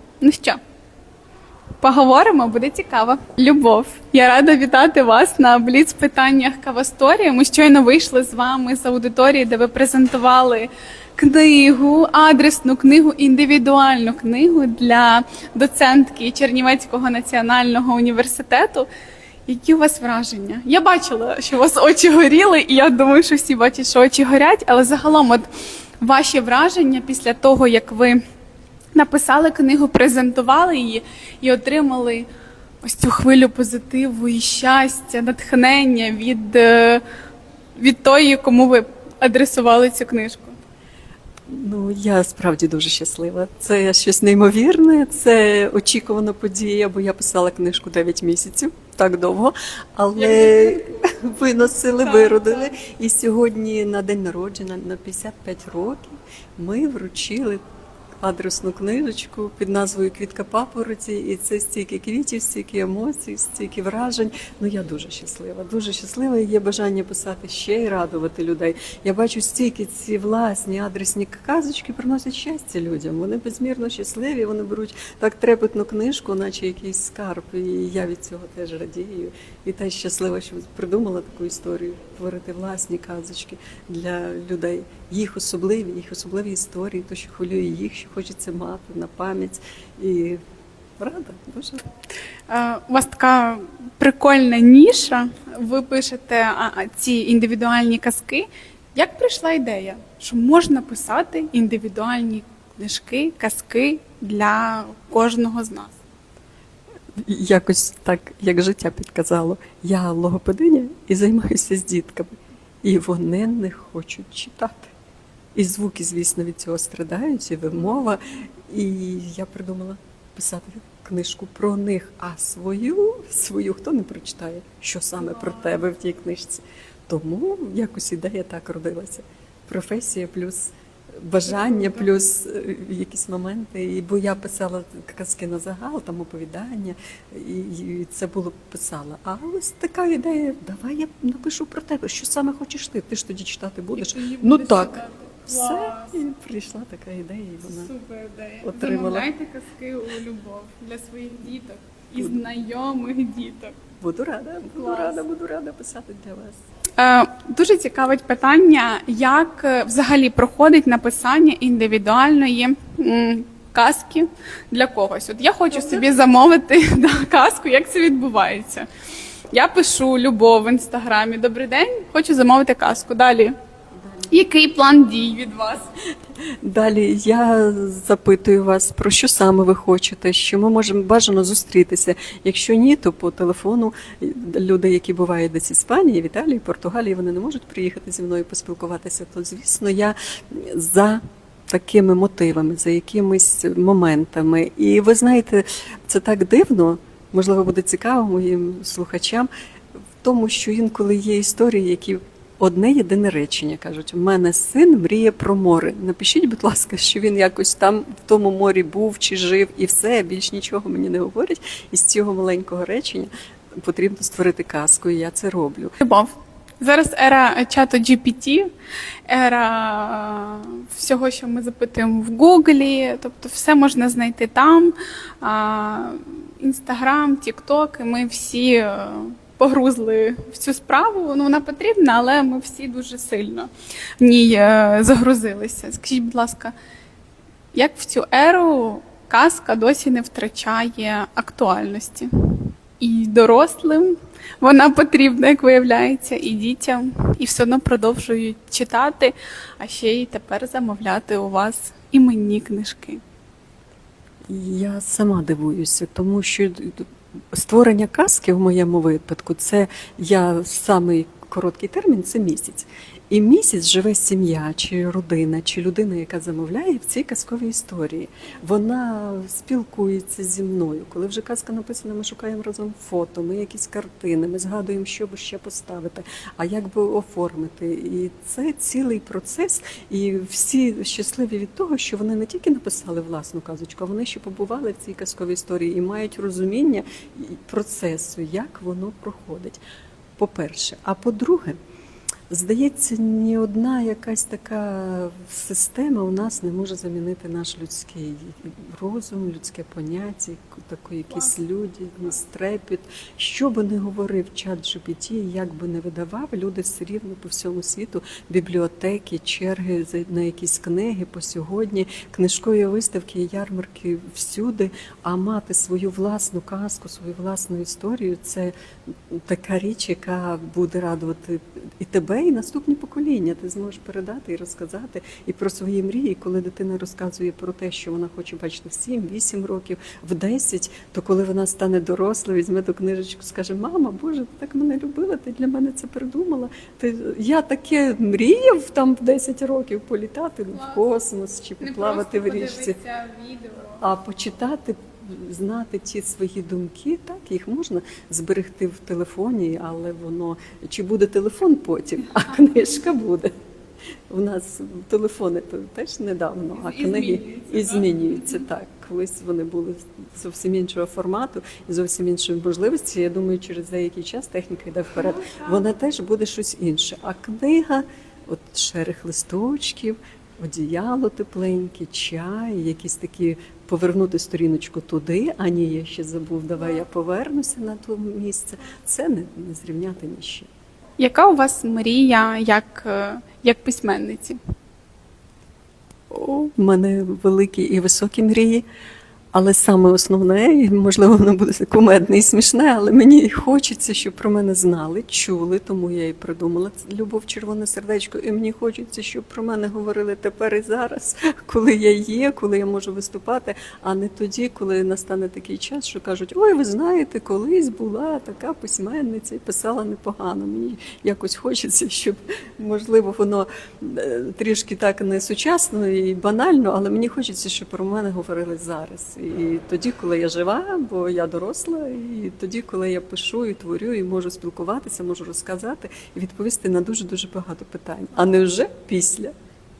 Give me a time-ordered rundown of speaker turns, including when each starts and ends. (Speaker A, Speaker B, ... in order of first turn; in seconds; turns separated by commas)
Speaker A: 0.2-0.6, Speaker A: 1.8-18.9, Speaker A: 19.5-25.5, Speaker A: 26.0-28.2, Speaker A: 28.9-32.3, Speaker A: 32.8-37.0, Speaker A: 37.8-40.5, Speaker B: 41.5-57.6, Speaker A: 50.1-51.1, Speaker A: 52.0-52.7, Speaker B: 58.2-90.4, Speaker B: 91.0-91.8, Speaker A: 92.5-106.0, Speaker B: 107.2-114.9, Speaker B: 115.5-147.9, Speaker A: 125.2-125.8, Speaker A: 131.5-132.1, Speaker A: 143.9-146.2, Speaker A: 147.7-153.8, Speaker B: 148.6-149.3, Speaker B: 154.0-156.6, Speaker A: 154.8-155.2, Speaker A: 157.0-168.9, Speaker A: 169.5-173.5, Speaker B: 174.0-174.3, Speaker A: 174.3-175.9, Speaker B: 176.6-199.5, Speaker B: 200.2-215.9, Speaker A: 216.0-218.7, Speaker A: 219.3-236.7, Speaker A: 237.7-253.2, Speaker B: 254.5-289.8, Speaker B: 290.4-291.8, Speaker B: 292.5-318.7, Speaker B: 319.3-343.0, Speaker A: 340.7-341.1, Speaker A: 341.8-344.0, Speaker B: 344.0-353.5, Speaker B: 354.3-380.7, Speaker A: 356.8-358.6, Speaker A: 365.2-365.8, Speaker A: 381.2-384.6, Speaker A: 386.3-386.7, Speaker B: 386.8-388.9, Speaker B: 389.5-429.5